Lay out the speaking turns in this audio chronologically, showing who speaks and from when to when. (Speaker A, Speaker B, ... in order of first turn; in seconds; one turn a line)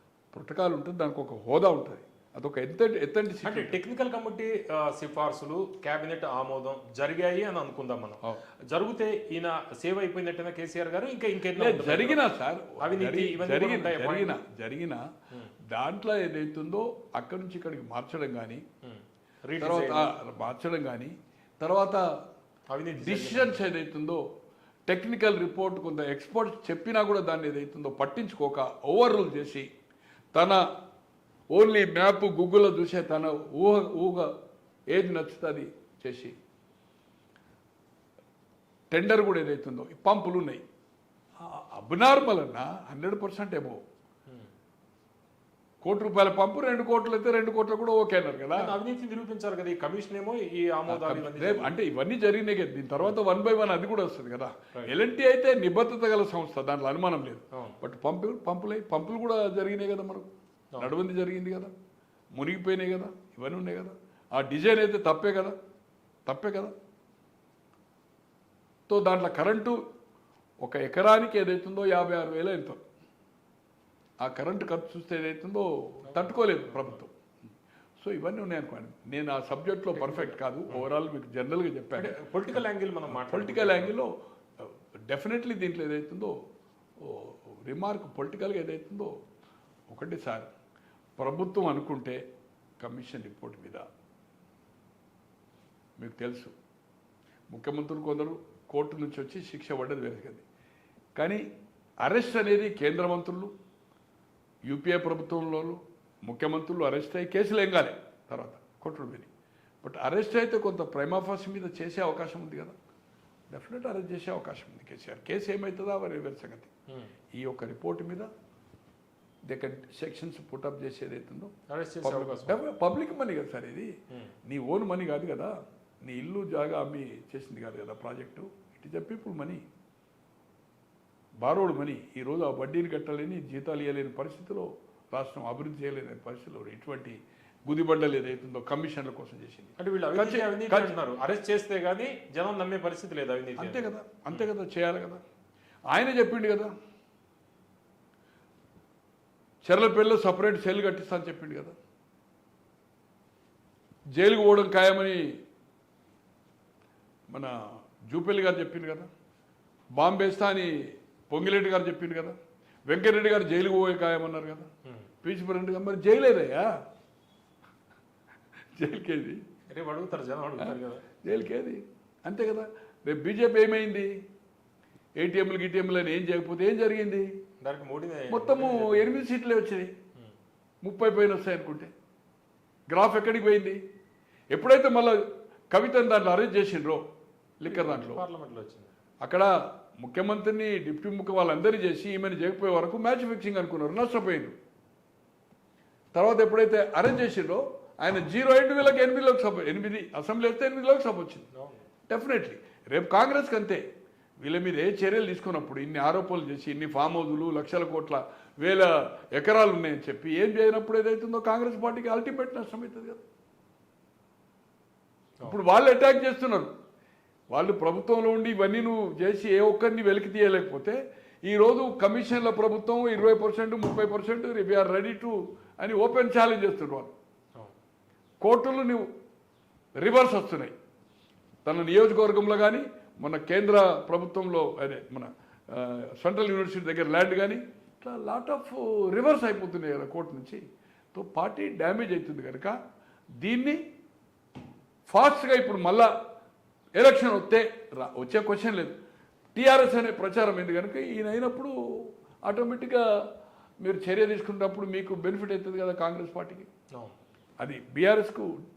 Speaker A: 0.3-3.8
Speaker B: 3.4-12.2
Speaker A: 11.6-15.0
Speaker B: 12.8-14.4
Speaker A: 15.7-18.6
Speaker B: 18.8-20.1
Speaker A: 19.6-22.0
Speaker B: 22.7-23.6
Speaker A: 23.0-24.2
Speaker A: 24.9-29.7
Speaker A: 30.3-30.6
Speaker A: 31.5-34.3
Speaker A: 34.9-36.3
Speaker A: 38.9-40.6
Speaker A: 41.4-43.8
Speaker A: 45.8-48.8
Speaker B: 48.5-51.8
Speaker A: 50.9-61.7
Speaker B: 54.7-55.0
Speaker A: 62.3-65.5
Speaker A: 66.3-66.7
Speaker A: 68.9-69.8
Speaker A: 70.6-72.8
Speaker A: 74.2-77.1
Speaker B: 76.1-77.0
Speaker A: 78.0-86.3
Speaker B: 80.0-80.9
Speaker B: 82.0-83.9
Speaker A: 87.0-89.1
Speaker A: 89.9-90.5
Speaker A: 91.2-92.2
Speaker A: 92.8-93.8
Speaker A: 96.0-96.5
Speaker A: 97.5-100.4
Speaker A: 101.2-101.4
Speaker A: 102.0-103.5
Speaker A: 104.7-109.3
Speaker A: 109.8-112.7
Speaker A: 113.5-116.7
Speaker A: 117.3-118.3
Speaker A: 119.5-121.5
Speaker B: 121.7-122.6
Speaker A: 122.0-123.9
Speaker A: 124.5-129.6
Speaker A: 131.4-141.0
Speaker B: 139.8-144.5
Speaker A: 143.6-145.2
Speaker A: 145.9-146.7
Speaker A: 149.6-151.8
Speaker A: 154.2-155.4
Speaker A: 157.3-157.6
Speaker A: 158.1-159.1
Speaker A: 160.0-162.3
Speaker A: 162.9-164.7
Speaker A: 165.2-166.8
Speaker A: 168.8-169.4
Speaker B: 169.7-171.1
Speaker A: 170.6-174.1
Speaker A: 175.2-177.3
Speaker B: 177.6-179.2
Speaker A: 178.3-179.9
Speaker A: 180.8-181.9
Speaker A: 182.9-183.8
Speaker A: 184.5-187.0
Speaker A: 187.6-188.2
Speaker B: 187.6-188.9
Speaker A: 189.2-194.6
Speaker A: 196.1-201.5
Speaker B: 201.5-201.9
Speaker A: 202.1-203.8
Speaker A: 204.4-213.2
Speaker A: 215.4-216.7
Speaker A: 217.5-227.1
Speaker A: 228.4-229.1
Speaker A: 230.0-230.7
Speaker A: 231.7-240.6
Speaker A: 241.1-242.8
Speaker A: 243.4-243.8
Speaker A: 245.1-246.1
Speaker A: 247.0-249.0
Speaker A: 249.6-253.2
Speaker A: 253.8-256.7
Speaker A: 257.6-258.5